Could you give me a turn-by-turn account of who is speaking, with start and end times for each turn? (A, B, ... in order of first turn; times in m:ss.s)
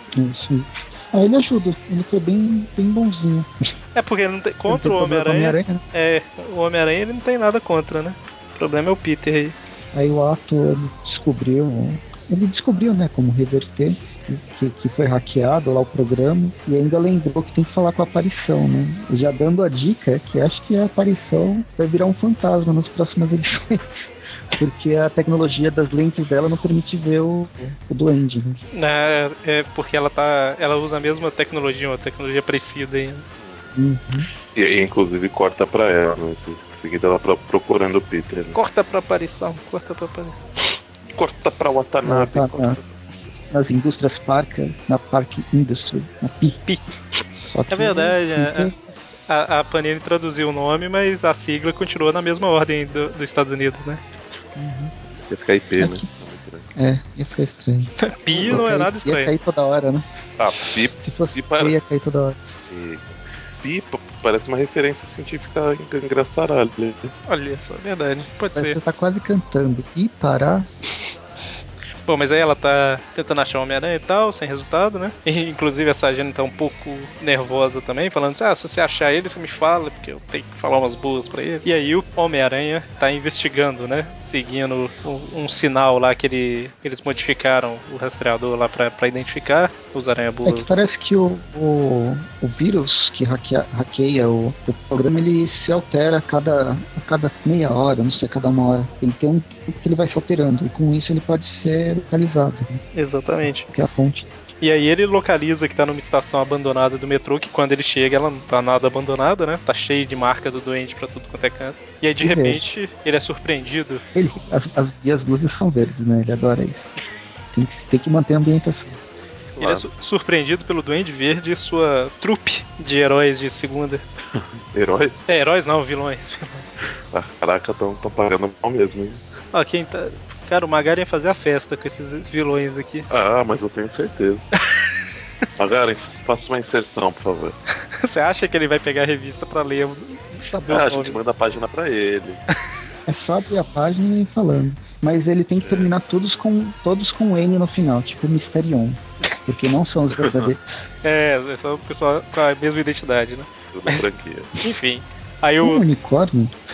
0:00.1-0:03.5 A
0:03.9-0:09.6 B
0:04.7-0:05.8 A
0:09.9-0:24.0 A
0:24.5-0:28.6 A
0:28.7-0:33.2 B
0:33.4-0:33.7 C
0:33.7-0:34.3 A
0:34.5-0:38.5 C
0:38.5-0:40.5 B
0:41.1-0:43.0 C
0:42.0-0:42.8 A
0:43.5-0:46.6 A
0:47.4-0:48.8 A
0:47.7-0:48.7 B
0:49.3-0:54.0 B
0:54.6-0:54.9 A
0:55.3-0:56.7 C
0:55.8-0:56.0 A
0:56.8-1:00.0 A
0:58.0-0:59.3 B
1:00.4-1:01.8 C
1:01.0-1:02.4 A
1:02.7-1:07.1 C
1:07.3-1:08.8 B
1:08.5-1:10.7 A
1:12.0-1:30.7 B
1:30.4-1:42.8 A
1:42.9-1:43.7 B
1:43.7-1:44.3 A
1:44.6-1:54.0 B
1:52.2-1:52.7 A
1:54.1-1:56.9 A
1:57.5-1:59.0 A
1:59.6-1:59.8 C
1:59.6-2:04.0 B
2:04.7-2:05.2 C
2:05.3-2:06.7 B
2:07.1-2:09.2 C
2:09.5-2:13.1 B
2:13.1-2:14.4 C
2:15.6-2:17.6 C
2:18.0-2:21.2 B
2:20.7-2:22.4 C
2:23.0-2:30.6 A
2:25.6-2:25.9 C
2:30.2-2:30.5 C
2:31.0-2:34.0 B
2:33.7-2:34.5 C
2:34.6-2:35.8 B
2:35.6-2:36.5 A